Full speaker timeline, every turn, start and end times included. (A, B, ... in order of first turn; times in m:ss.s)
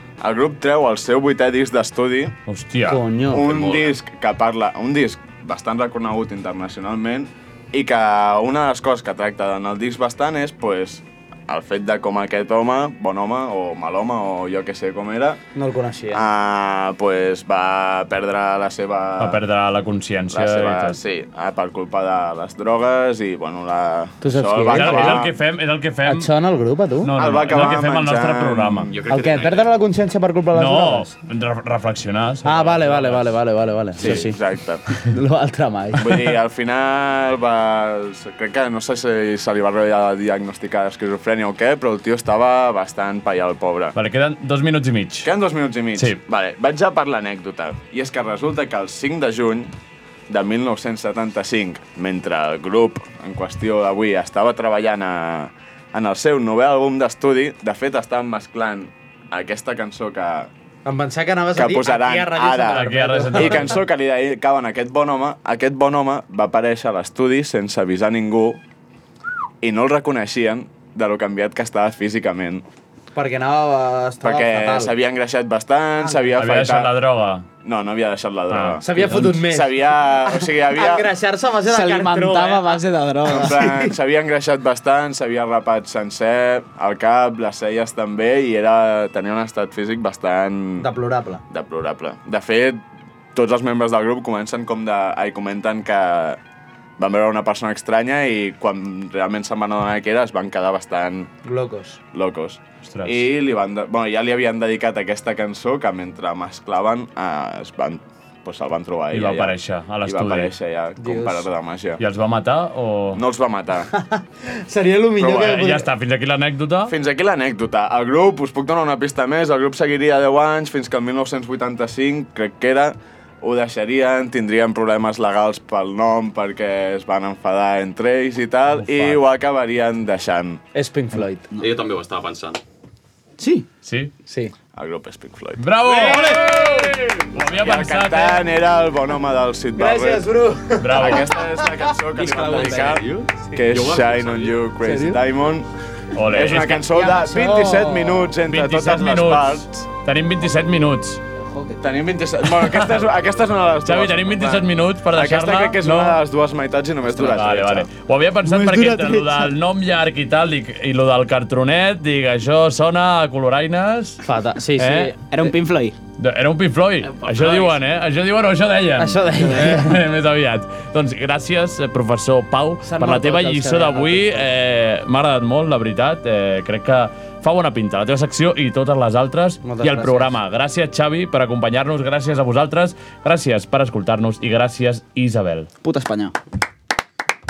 0:00.2-0:02.4 A
0:02.5-0:03.0 B
0:02.8-0:03.5 C
0:03.3-0:15.4 A
0:03.5-0:03.9 D
0:15.6-0:16.2 C
0:16.1-0:19.4 A
0:19.2-0:21.0 B
0:20.3-0:25.4 A
0:24.2-0:25.2 C
0:24.7-0:26.3 B
0:26.1-0:27.1 C
0:27.0-0:28.9 B
0:27.2-0:28.9 A
0:28.9-0:29.7 D
0:29.1-0:31.1 C
0:30.5-0:33.3 B
0:32.4-0:34.4 C
0:34.0-0:34.8 A
0:34.9-0:36.2 C
0:36.0-0:44.0 A
0:44.0-0:45.3 B
0:45.2-0:49.7 A
0:50.3-1:00.5 A
1:00.8-1:03.7 C
1:01.6-1:08.6 A
1:02.7-1:03.8 B
1:09.6-1:12.6 A
1:13.2-1:14.9 C
1:14.2-1:16.9 A
1:16.4-1:17.4 B
1:17.6-1:21.1 A
1:18.5-1:19.3 B
1:18.8-1:23.9 C
1:21.7-1:23.6 E
1:23.3-1:30.9 A
1:30.8-1:31.4 C
1:31.5-1:32.8 A
1:33.3-1:36.4 A
1:37.0-1:41.3 A
1:41.4-1:42.0 C
1:42.1-1:52.0 A
1:42.8-1:43.3 B
1:49.1-1:50.5 B
1:51.0-1:51.5 C
1:52.0-1:53.2 B
1:53.1-1:53.9 A
1:54.5-1:55.9 C
1:55.2-1:55.6 A
1:55.4-1:57.0 B
1:56.9-2:10.6 A
2:08.8-2:09.2 B
2:10.7-2:11.5 C
2:11.6-2:12.6 D
2:13.4-2:13.7 E
2:13.8-2:14.1 B
2:14.3-2:14.5 C
2:14.8-2:20.3 A
2:15.6-2:18.5 B
2:15.9-2:16.9 C
2:19.8-2:21.7 C
2:20.8-2:21.3 B
2:20.9-2:29.7 A
2:22.1-2:24.5 D
2:24.8-2:25.2 C
2:26.2-2:26.8 B
2:26.9-2:28.3 C
2:28.5-2:31.2 B
2:31.4-2:31.8 E
2:31.8-2:37.9 A
2:32.6-2:32.9 B
2:33.8-2:36.2 B
2:37.2-2:44.2 B
2:38.4-2:39.5 E
2:44.2-2:45.5 C
2:44.8-2:46.0 E
2:46.2-3:05.7 B
2:47.2-2:47.8 D
2:49.0-2:50.0 C
2:52.8-2:54.4 C
2:59.6-3:00.4 C
3:05.8-3:06.4 E